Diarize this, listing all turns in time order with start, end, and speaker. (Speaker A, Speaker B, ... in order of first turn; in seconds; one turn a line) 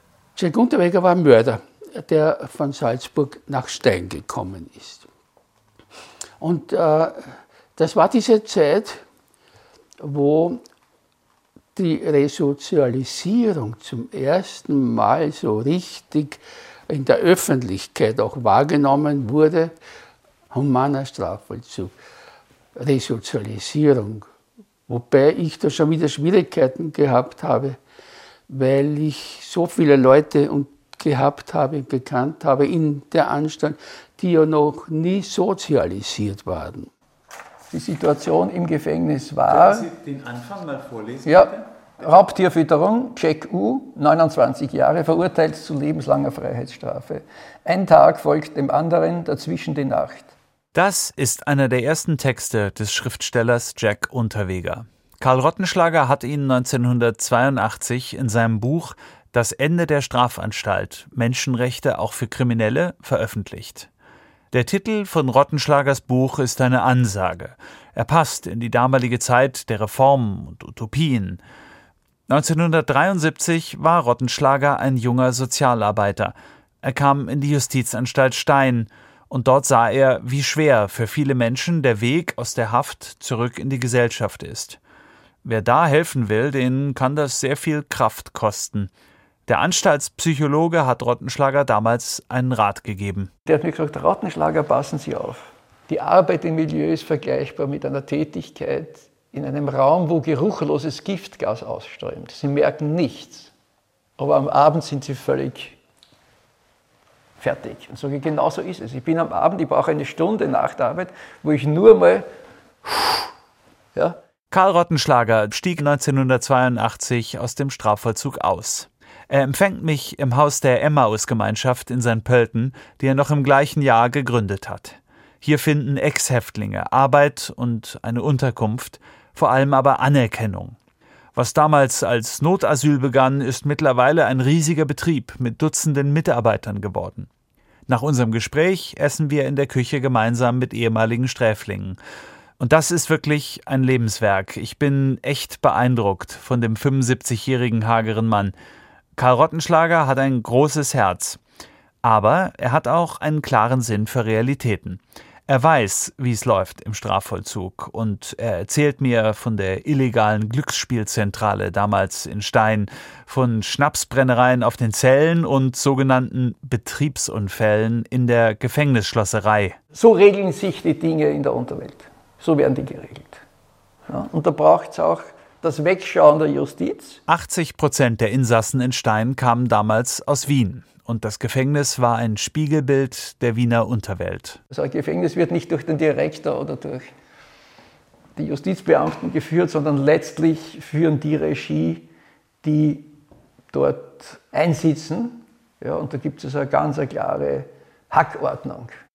Speaker A: 0.3-5.0
Speaker A: 6.4-9.0
Speaker A: 10.0-10.6
Speaker A: 11.7-19.7
Speaker A: 20.5-21.9
Speaker A: 22.8-24.3
Speaker A: 24.9-27.8
Speaker A: 28.5-36.9
Speaker B: 37.7-39.9
Speaker C: 39.5-41.6
Speaker B: 41.2-50.3
Speaker C: 50.7-63.9
Speaker C: 64.5-71.4
Speaker C: 72.3-84.8
Speaker C: 85.4-88.9
Speaker C: 89.5-93.3
Speaker B: 93.5-103.5
Speaker B: 104.2-105.8
Speaker B: 107.4-112.3
Speaker B: 112.8-113.3
Speaker C: 114.5-130.8
Speaker C: 131.3-137.3
Speaker C: 137.9-142.0
Speaker C: 142.6-148.5
Speaker C: 149.2-151.4
Speaker C: 152.0-169.8
Speaker B: 169.9-173.4
Speaker B: 174.1-177.2
Speaker C: 177.3-184.6
Speaker B: 184.7-187.1
Speaker B: 188.3-192.1
Speaker B: 192.6-193.1
Speaker B: 193.7-198.9